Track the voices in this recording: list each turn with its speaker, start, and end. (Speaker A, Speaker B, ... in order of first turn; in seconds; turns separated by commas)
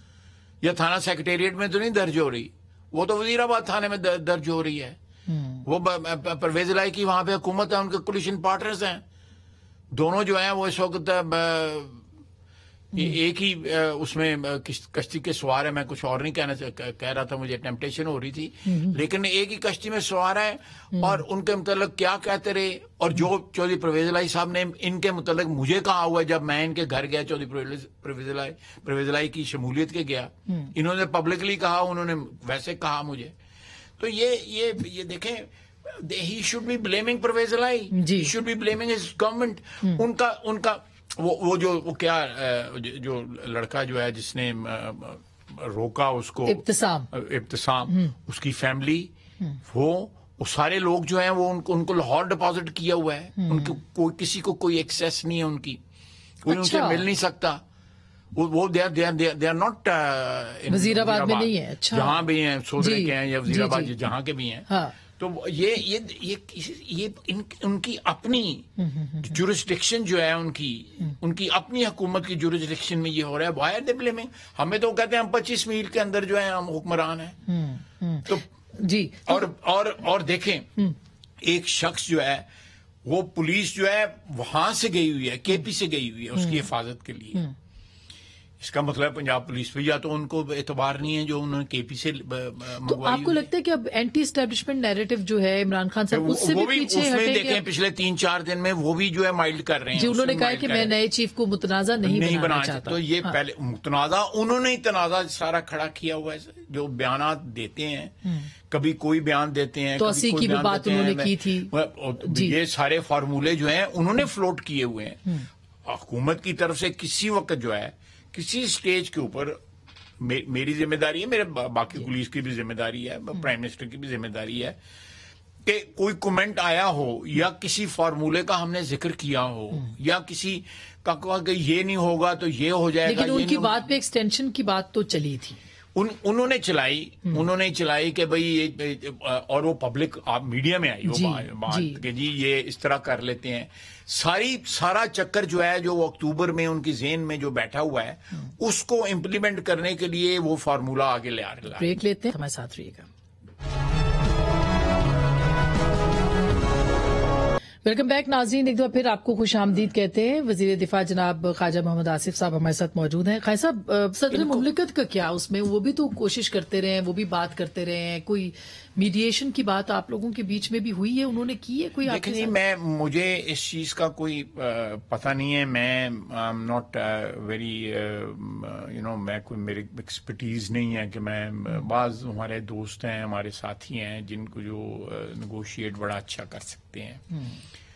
Speaker A: 0.6-5.0, Speaker B: 5.3-5.6, Speaker A: 5.6-9.0, Speaker A: 9.9-12.0, Speaker A: 12.9-33.4, Speaker B: 18.7-19.0, Speaker A: 34.0-49.1, Speaker B: 37.9-38.3, Speaker B: 46.5-47.1, Speaker A: 49.6-55.8, Speaker B: 53.4-53.7, Speaker A: 56.4-57.6, Speaker B: 56.5-57.0, Speaker A: 58.3-68.7, Speaker B: 60.7-62.2, Speaker B: 62.8-63.9, Speaker B: 64.7-65.0, Speaker B: 68.8-69.3, Speaker A: 69.2-77.4, Speaker B: 77.5-79.5, Speaker A: 79.3-80.7, Speaker A: 81.4-82.5, Speaker A: 83.0-87.5, Speaker B: 86.4-86.6, Speaker A: 88.6-93.5, Speaker B: 92.8-97.6, Speaker A: 96.1-101.0, Speaker B: 100.0-103.3, Speaker A: 102.0-119.6, Speaker B: 110.0-111.7, Speaker B: 112.2-112.6, Speaker A: 120.2-124.8, Speaker A: 125.6-133.8, Speaker B: 133.1-135.6, Speaker A: 135.9-151.9, Speaker B: 141.1-142.0, Speaker B: 151.8-153.1, Speaker B: 157.8-172.5, Speaker A: 164.3-164.7, Speaker A: 172.1-187.2